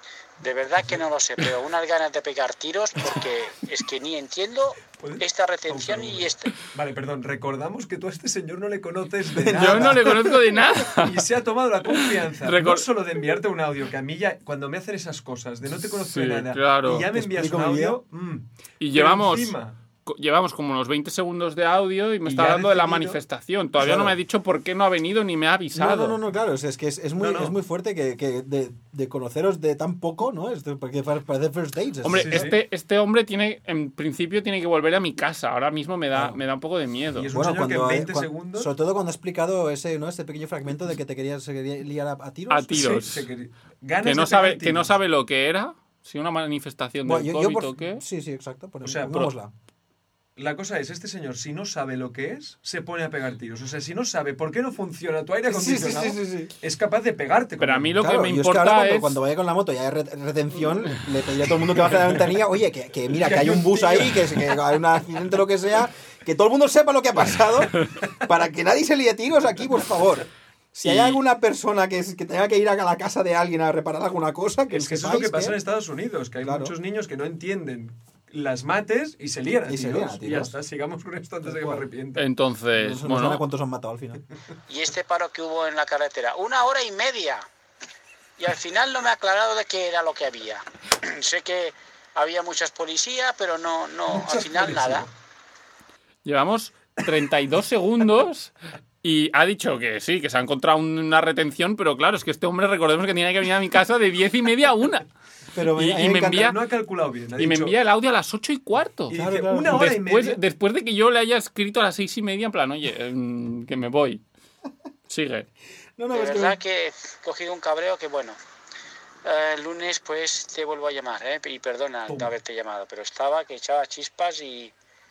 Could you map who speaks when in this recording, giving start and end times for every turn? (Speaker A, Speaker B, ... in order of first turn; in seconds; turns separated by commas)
Speaker A: 0.4-6.5, Speaker B: 5.0-10.3, Speaker C: 9.4-10.4, Speaker D: 9.5-11.2, Speaker B: 10.8-19.8, Speaker D: 11.9-12.9, Speaker D: 15.8-17.1, Speaker C: 17.0-18.0, Speaker D: 18.8-26.2, Speaker B: 22.3-23.2, Speaker C: 23.8-24.2, Speaker C: 25.8-32.5, Speaker B: 27.2-27.6, Speaker D: 32.0-37.3, Speaker B: 32.1-32.6, Speaker C: 36.1-36.4, Speaker B: 37.2-38.7, Speaker C: 37.3-42.8, Speaker D: 42.5-43.3, Speaker B: 42.7-44.9, Speaker D: 44.0-48.0, Speaker C: 47.0-49.5, Speaker B: 48.8-49.3, Speaker B: 50.4-57.9, Speaker C: 55.5-56.5, Speaker D: 57.6-59.2, Speaker C: 57.9-75.6, Speaker B: 63.1-64.6, Speaker D: 70.8-71.2, Speaker B: 74.7-82.3, Speaker C: 76.4-76.8, Speaker C: 79.7-80.6, Speaker C: 81.5-81.8, Speaker D: 82.2-83.5, Speaker C: 82.8-84.2, Speaker A: 84.7-87.5, Speaker A: 88.4-95.1, Speaker B: 94.1-95.1, Speaker D: 96.2-105.1, Speaker C: 105.5-106.5, Speaker D: 105.6-106.6, Speaker B: 106.2-107.8, Speaker D: 107.4-109.2, Speaker B: 109.1-110.4, Speaker C: 109.1-109.9, Speaker D: 109.7-114.2, Speaker D: 115.1-115.5, Speaker C: 116.0-116.6, Speaker A: 116.1-118.4, Speaker A: 119.2-124.7